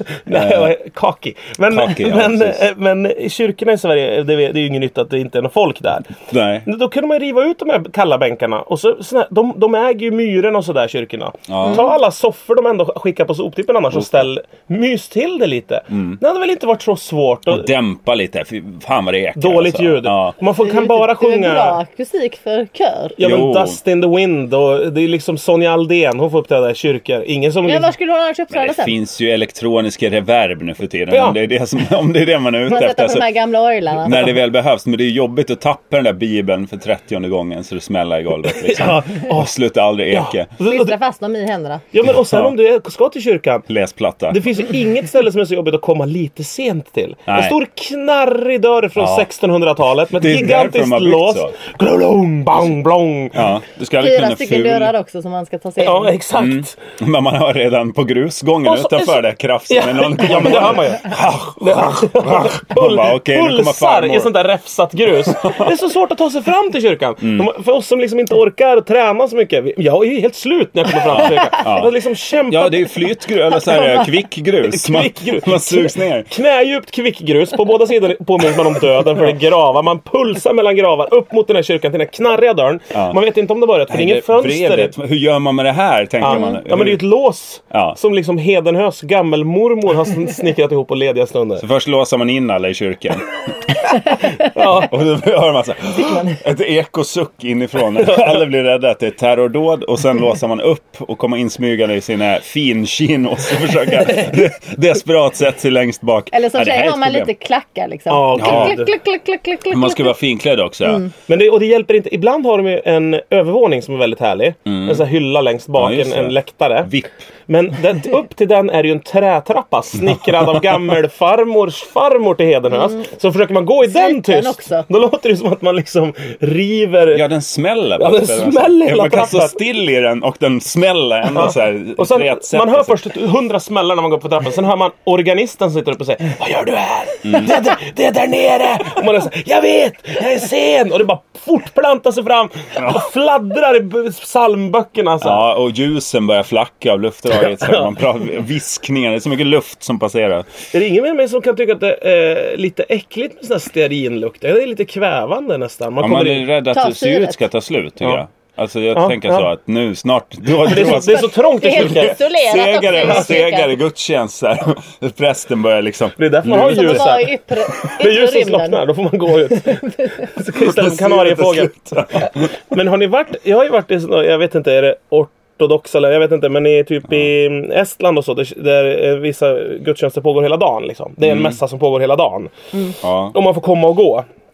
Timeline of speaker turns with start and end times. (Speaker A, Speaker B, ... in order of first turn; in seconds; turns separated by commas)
Speaker A: 0.2-17.7, Speaker B: 0.3-0.7, Speaker B: 1.7-2.6, Speaker B: 6.3-6.7, Speaker B: 11.5-11.8, Speaker C: 11.6-11.9, Speaker B: 13.9-14.3, Speaker B: 15.9-16.2, Speaker B: 17.5-20.4, Speaker A: 19.4-21.8, Speaker C: 20.6-23.2, Speaker A: 23.2-27.9, Speaker B: 23.2-23.8, Speaker C: 27.7-28.9, Speaker B: 28.5-33.3, Speaker A: 31.1-31.4, Speaker C: 32.7-34.3, Speaker B: 34.0-40.5, Speaker A: 38.6-39.5, Speaker A: 40.1-41.0, Speaker C: 40.6-41.8, Speaker A: 41.9-43.7, Speaker B: 43.7-44.4, Speaker A: 44.3-53.5, Speaker B: 47.3-47.6, Speaker B: 49.0-49.3, Speaker B: 50.2-51.5, Speaker B: 53.3-54.9, Speaker C: 54.0-56.1, Speaker A: 55.8-56.8, Speaker B: 56.4-64.3, Speaker A: 58.6-72.9, Speaker B: 65.2-65.7, Speaker B: 67.2-67.5, Speaker B: 71.1-71.9, Speaker B: 72.5-76.3, Speaker A: 74.6-84.9, Speaker B: 83.9-87.0, Speaker A: 86.2-91.6, Speaker C: 86.3-86.6, Speaker B: 87.7-88.0, Speaker B: 91.6-93.7, Speaker A: 94.5-94.9, Speaker B: 94.8-107.3, Speaker C: 96.0-96.4, Speaker A: 98.0-98.3, Speaker C: 106.3-110.1, Speaker A: 108.1-108.9, Speaker B: 108.4-108.8, Speaker B: 109.7-111.1, Speaker A: 111.3-116.9, Speaker B: 114.7-115.0, Speaker B: 115.8-117.3, Speaker A: 117.5-127.3, Speaker C: 122.8-123.0, Speaker C: 123.8-124.8, Speaker B: 127.1-133.0, Speaker A: 128.0-129.6, Speaker A: 131.3-145.4, Speaker B: 137.2-137.6, Speaker B: 142.8-143.0, Speaker B: 145.2-150.5, Speaker A: 147.4-147.9, Speaker A: 150.7-156.5, Speaker B: 156.0-167.2, Speaker C: 156.7-157.4, Speaker A: 158.9-159.5, Speaker A: 160.6-162.2, Speaker C: 160.7-163.8, Speaker A: 162.9-163.3, Speaker A: 166.2-184.3, Speaker C: 166.6-168.8, Speaker B: 170.6-172.5, Speaker B: 181.2-181.6, Speaker B: 183.0-183.3